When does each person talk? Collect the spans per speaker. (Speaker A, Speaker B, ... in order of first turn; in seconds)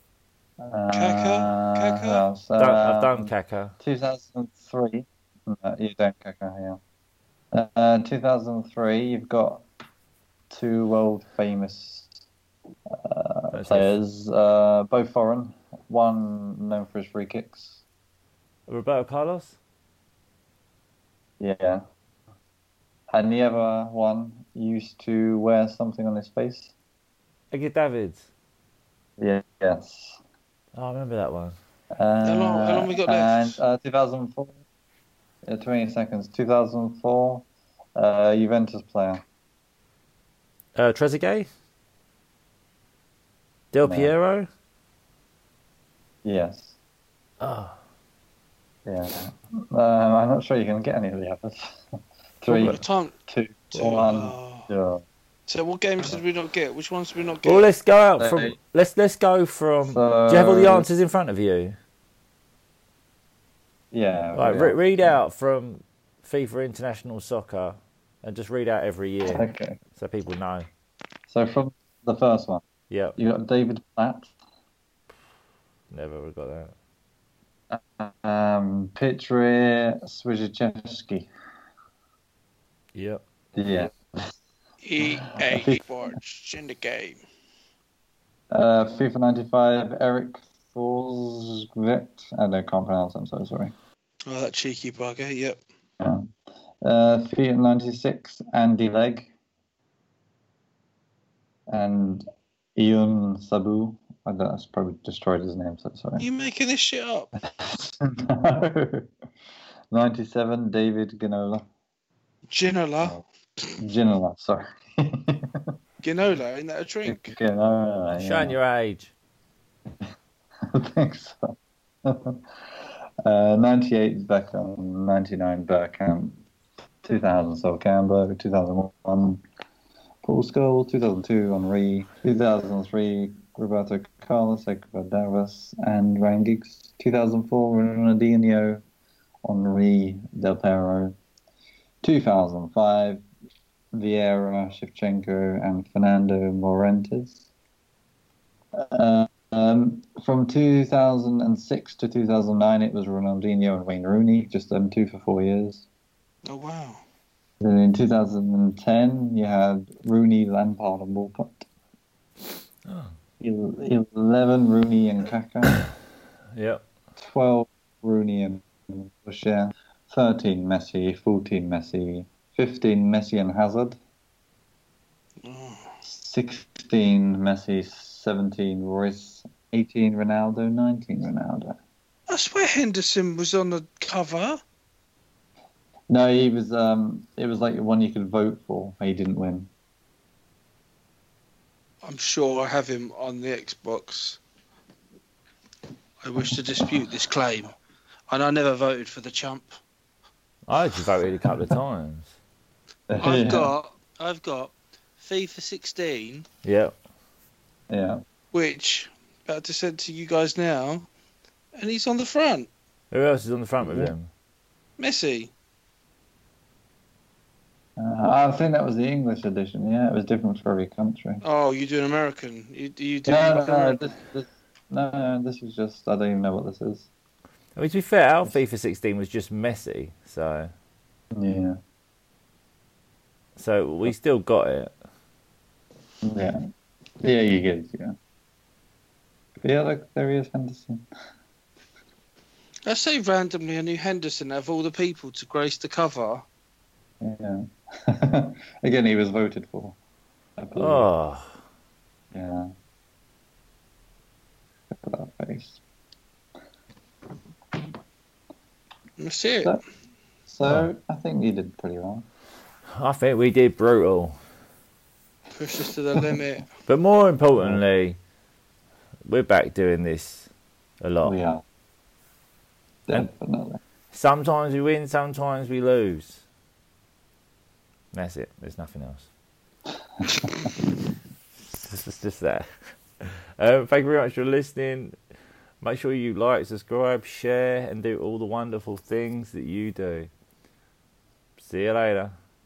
Speaker A: 0.6-6.8, 7.5-9.6, 10.5-12.1, 12.9-17.8, 21.4-21.8, 23.1-26.7, 29.2-30.2, 32.0-34.6, 35.5-39.2, 43.8-44.1, 46.2-46.8, 48.9-51.8, 52.4-55.0, 58.2-58.5, 59.8-60.9, 63.9-65.2, 69.3-69.8, 71.3-72.6, 73.2-74.3, 77.7-81.3, 83.5-84.3, 85.0-85.8, 88.5-93.7, 96.0-96.3, 96.8-99.3, 101.7-102.2, 102.8-106.2, 107.4-109.1, 109.9-111.6, 113.8-115.7, 117.0-118.5, 120.7-121.5, 122.0-122.4, 123.2-126.4, 127.0-129.4, 130.2-138.8, 139.4-141.1, 142.0-143.2, 143.9-147.5, 148.7-155.8, 157.6-161.6, 163.4-165.8, 167.2-174.0, 176.0-181.8, 186.1-189.7, 203.1-203.7, 207.9-208.2, 213.8-214.1, 218.0-221.4, 223.2-227.1, 231.3-231.8, 236.2-236.6, 237.2-238.1, 239.6-241.0, 247.2-250.0, 250.6-251.1, 252.3-252.7, 254.9-255.8, 260.5-262.2, 267.6-267.8, 271.2-271.6, 273.1-273.8, 280.2-280.5
Speaker B: 0.9-2.2, 32.2-33.6, 52.5-53.1, 53.7-54.7, 55.5-57.7, 84.8-87.2, 94.3-95.6, 106.2-107.3, 112.5-113.2, 116.0-117.3, 156.4-157.0, 175.4-175.9, 182.3-184.6, 192.0-194.4, 196.2-197.7, 198.3-199.7, 203.2-206.4, 208.5-211.1, 211.8-212.7, 215.0-215.5, 221.4-224.1, 242.8-246.4, 259.2-259.8, 265.5-266.7
Speaker C: 2.6-3.7, 13.5-13.9, 18.7-19.6, 27.5-28.3, 30.7-31.6, 40.8-41.5, 43.7-44.5, 47.4-47.8, 57.4-61.7, 64.3-70.7, 72.9-73.2, 75.9-76.7, 82.9-83.2, 118.2-119.1, 162.8-163.1, 166.5-166.8, 200.7-202.3, 206.6-206.9, 213.1-214.3, 227.8-230.7, 233.6-234.9, 250.8-251.5, 260.6-260.9, 262.9-264.4, 266.9-268.2, 269.3-270.5, 271.0-271.4, 274.1-276.4, 278.1-279.3, 281.7-282.6, 283.2-285.1, 285.8-290.3, 291.6-292.3